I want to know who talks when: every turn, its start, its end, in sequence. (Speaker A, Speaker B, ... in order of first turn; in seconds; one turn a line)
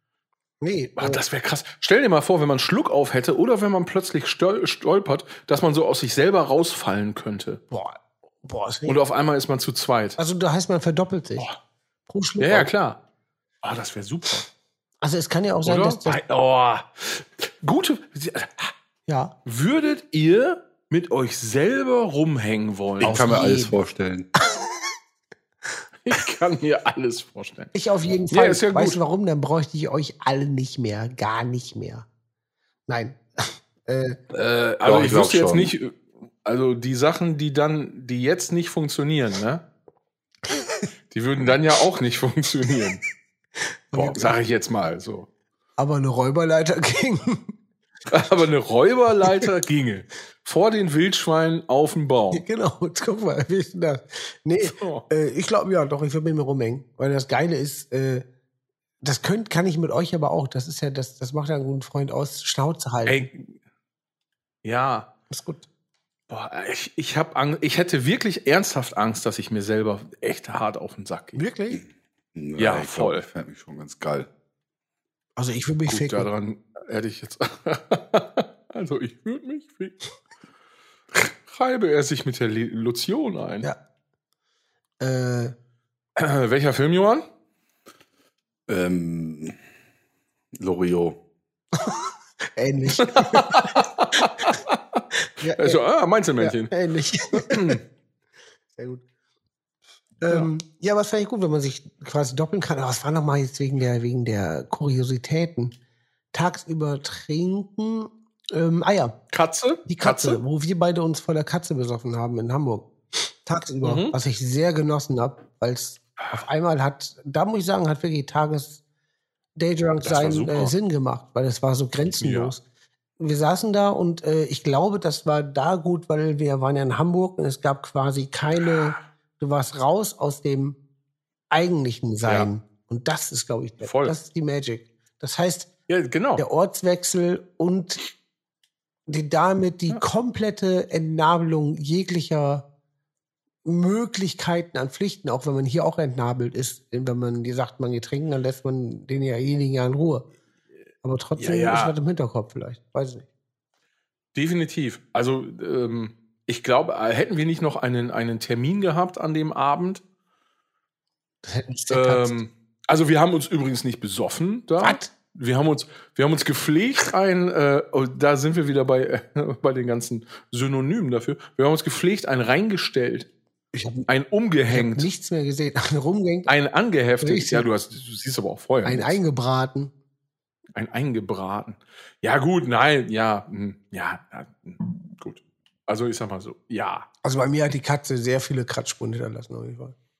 Speaker A: 0.6-1.2
Speaker B: 1.0-7.6
Speaker A: 7.7-9.0
Speaker B: 8.9-10.2
Speaker A: 10.2-11.5
Speaker A: 12.1-12.7
Speaker B: 12.4-13.0
Speaker B: 13.6-14.5
Speaker A: 15.0-16.2
Speaker B: 15.6-18.7
Speaker A: 19.1-19.3
Speaker B: 19.4-23.2
Speaker C: 23.0-24.3
Speaker A: 23.0-23.8
Speaker B: 26.0-27.7
Speaker A: 27.7-32.0
Speaker B: 28.3-29.0
Speaker A: 32.9-34.2
Speaker B: 34.3-39.6
Speaker C: 34.8-35.7
Speaker B: 41.1-43.0
Speaker A: 43.9-44.3
Speaker B: 43.9-45.3
Speaker A: 45.8-47.4
Speaker B: 48.1-52.4
Speaker A: 52.3-58.2
Speaker B: 54.6-55.0
Speaker A: 59.0-63.2
Speaker B: 63.0-63.5
Speaker B: 64.6-65.1
Speaker A: 65.3-65.6
Speaker B: 66.3-71.4
Speaker A: 71.3-71.8
Speaker C: 72.3-74.3
Speaker B: 72.6-73.2
Speaker A: 75.4-76.3
Speaker B: 75.9-80.0
Speaker B: 81.5-83.7
Speaker A: 85.0-85.5
Speaker B: 86.2-87.2
Speaker C: 88.7-89.6
Speaker C: 90.5-91.2
Speaker A: 92.5-93.6
Speaker B: 93.0-95.0
Speaker A: 95.4-95.8
Speaker B: 95.5-96.7
Speaker A: 96.4-97.8
Speaker B: 97.3-97.8
Speaker A: 98.7-99.0
Speaker A: 100.2-105.7
Speaker A: 106.3-109.1
Speaker B: 109.3-110.4
Speaker A: 109.9-118.8
Speaker B: 113.8-114.2
Speaker A: 119.6-122.6
Speaker B: 120.0-120.7
Speaker B: 122.2-122.5
Speaker A: 123.2-130.8
Speaker A: 131.5-135.7
Speaker B: 132.2-132.5
Speaker B: 133.8-134.1
Speaker B: 135.9-136.4
Speaker A: 136.4-138.0
Speaker A: 139.1-142.6
Speaker A: 143.6-150.2
Speaker A: 151.0-153.2
Speaker B: 151.4-151.9
Speaker B: 154.3-160.0
Speaker A: 161.4-162.4
Speaker B: 161.9-173.3
Speaker A: 164.8-165.1
Speaker A: 173.7-174.1
Speaker B: 174.1-175.1
Speaker A: 174.7-176.5
Speaker B: 176.5-179.2
Speaker A: 177.2-177.7
Speaker A: 178.8-179.9
Speaker B: 180.7-187.1
Speaker A: 187.2-189.9